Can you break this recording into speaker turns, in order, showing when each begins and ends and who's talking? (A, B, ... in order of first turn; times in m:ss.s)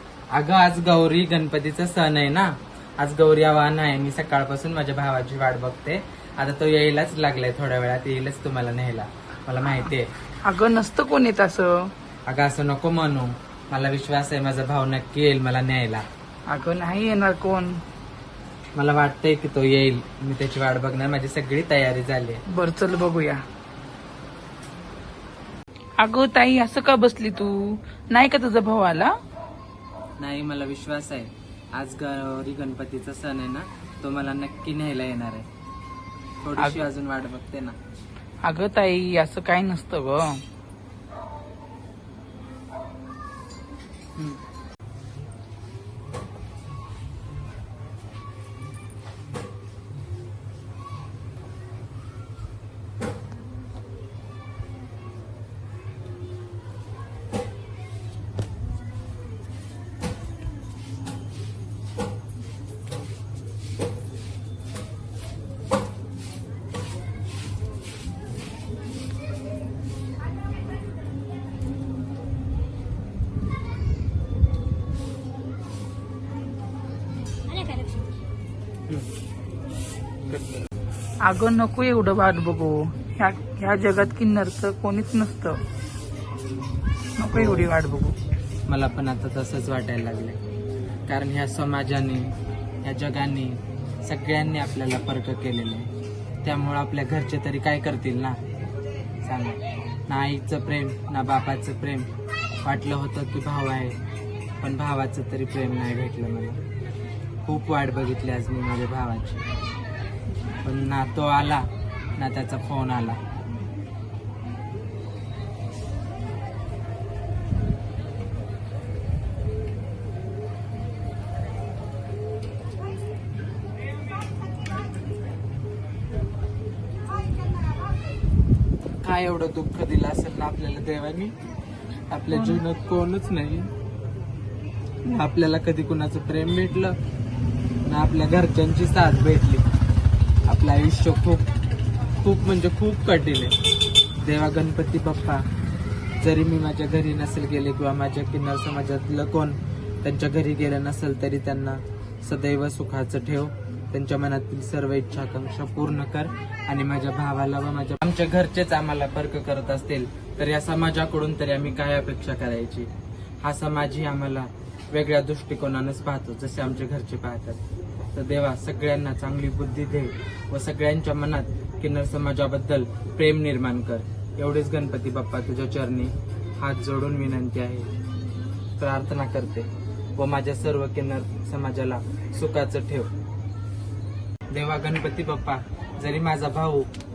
0:00.3-0:02.5 A
0:03.0-0:10.1 A
0:10.4-0:11.7 B
0:12.3-0:16.0 A
0:16.5-0:17.7 B
0:18.8-0:22.4 A
0:22.5-0:23.4 B
0:26.0-0:27.6 B
0:28.1-0:29.1 B
0:30.2-0:35.5 A
0:36.4-0:37.8 A
0:38.4-0:40.3 B
1:20.3-1:20.6 A
1:21.2-1:25.6 B
1:27.2-1:28.1 B
1:27.3-1:27.7 A
1:28.7-1:30.4 A
1:31.1-1:32.3 A
1:32.8-1:35.9 A
1:36.4-1:38.4 A
1:39.2-1:42.1 A
1:42.6-1:44.0 A
1:44.6-1:46.6 A
1:47.4-1:49.4 A
1:50.6-1:53.2 A
2:09.0-2:11.3 A
2:12.1-2:13.7 A
2:12.3-2:12.6 B
2:15.0-2:16.9 A
2:17.8-2:19.6 A
2:20.5-2:21.4 A
2:22.2-2:23.5 A
2:24.2-2:25.4 A
2:26.2-2:42.9 A
2:43.4-2:47.6 A
2:48.1-2:57.9 A
2:58.8-3:03.1 A
3:04.5-3:06.9 A